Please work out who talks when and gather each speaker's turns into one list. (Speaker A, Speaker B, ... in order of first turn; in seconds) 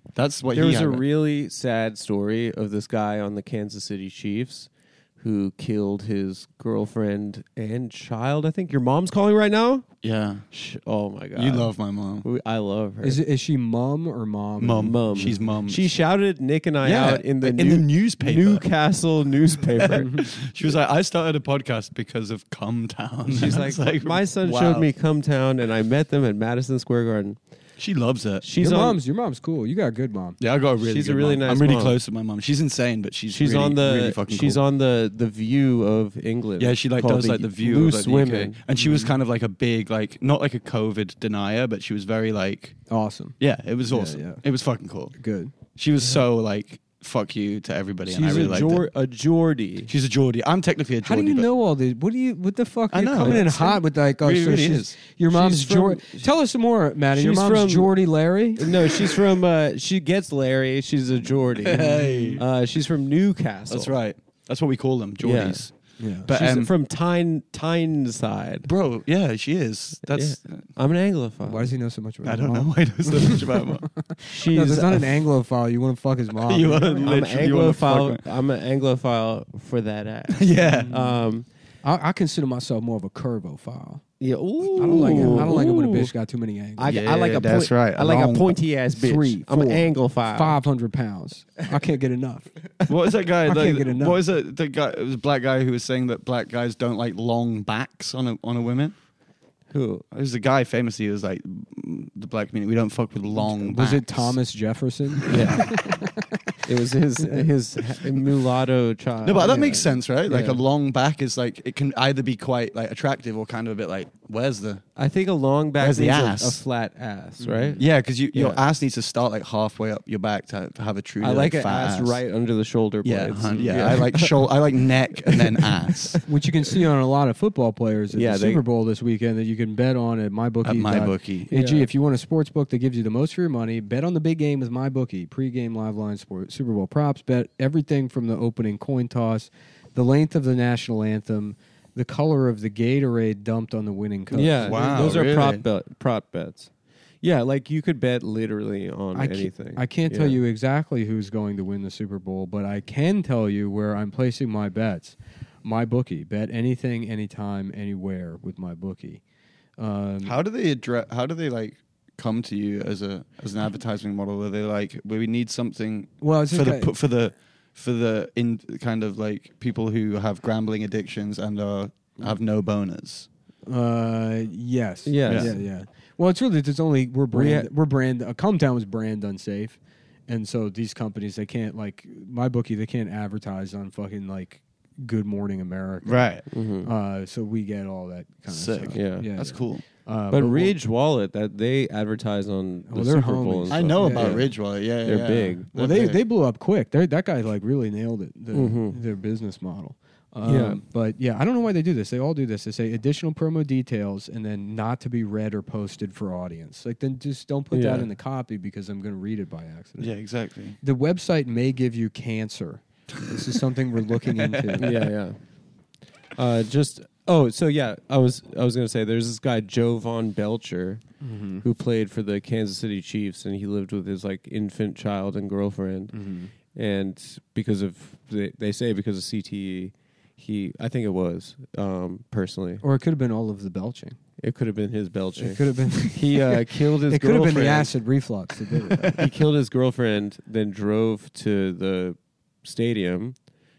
Speaker A: 0.1-1.0, 10.0-10.4, 11.4-12.3, 14.6-15.9, 16.8-18.7, 19.6-24.9, 27.8-28.4, 30.4-34.6, 36.6-42.8, 43.4-45.1, 45.7-48.9, 49.9-51.5, 52.9-55.0, 61.6-62.4, 63.7-66.7, 68.6-70.6, 72.2-73.9, 76.4-78.2, 80.3-80.9, 86.9-88.6, 92.9-99.0, 100.1-104.4, 105.2-105.8, 109.2-114.8, 115.8-116.6, 117.8-122.2, 123.0-126.2, 130.6-131.5, 144.6-145.7, 160.2-173.3, 175.3-175.5, 186.0-186.4, 188.5-189.8, 193.7-196.2, 210.0-210.8, 214.2-214.9
Speaker B: 0.5-9.9, 10.5-13.2, 14.8-20.1, 23.3-27.4, 28.4-29.0, 30.8-32.0, 33.3-38.6, 48.1-49.9, 53.2-53.5, 55.3-56.0, 57.1-58.0, 58.6-64.0, 65.2-65.7, 66.3-68.7, 70.0-71.7, 74.3-75.1, 76.6-81.5, 84.2-86.1, 86.8-90.6, 99.7-100.1, 105.3-105.7, 106.7-110.6, 115.0-118.6, 121.2-124.6, 125.2-126.2, 128.1-128.6, 131.5-131.9, 144.3-146.7, 147.2-150.4, 175.1-175.6, 177.3-177.7, 186.5-186.9, 188.9-189.3, 190.3-194.5, 195.0-195.7, 198.5-199.0, 200.5-200.8, 207.7-208.1, 214.8-215.4, 216.4-221.0, 221.6-226.2, 226.7-232.8, 234.4-237.9, 239.2-243.4
Speaker C: 13.0-15.6, 20.0-20.3, 28.6-30.4, 38.8-39.1, 42.9-44.4, 45.2-45.5, 51.0-59.0, 61.7-62.4, 66.0-66.3, 71.5-77.1, 80.6-81.2, 81.8-84.0, 84.8-87.0, 88.9-92.5, 93.4-94.2, 103.4-106.5, 107.2-107.5, 109.4-110.5, 117.4-117.8, 126.3-145.2, 149.2-159.2, 159.8-160.4, 166.2-166.9, 173.7-190.8, 192.9-194.5, 195.8-210.1, 210.8-215.1, 221.2-221.7, 226.1-226.5, 232.8-234.2, 235.4-239.3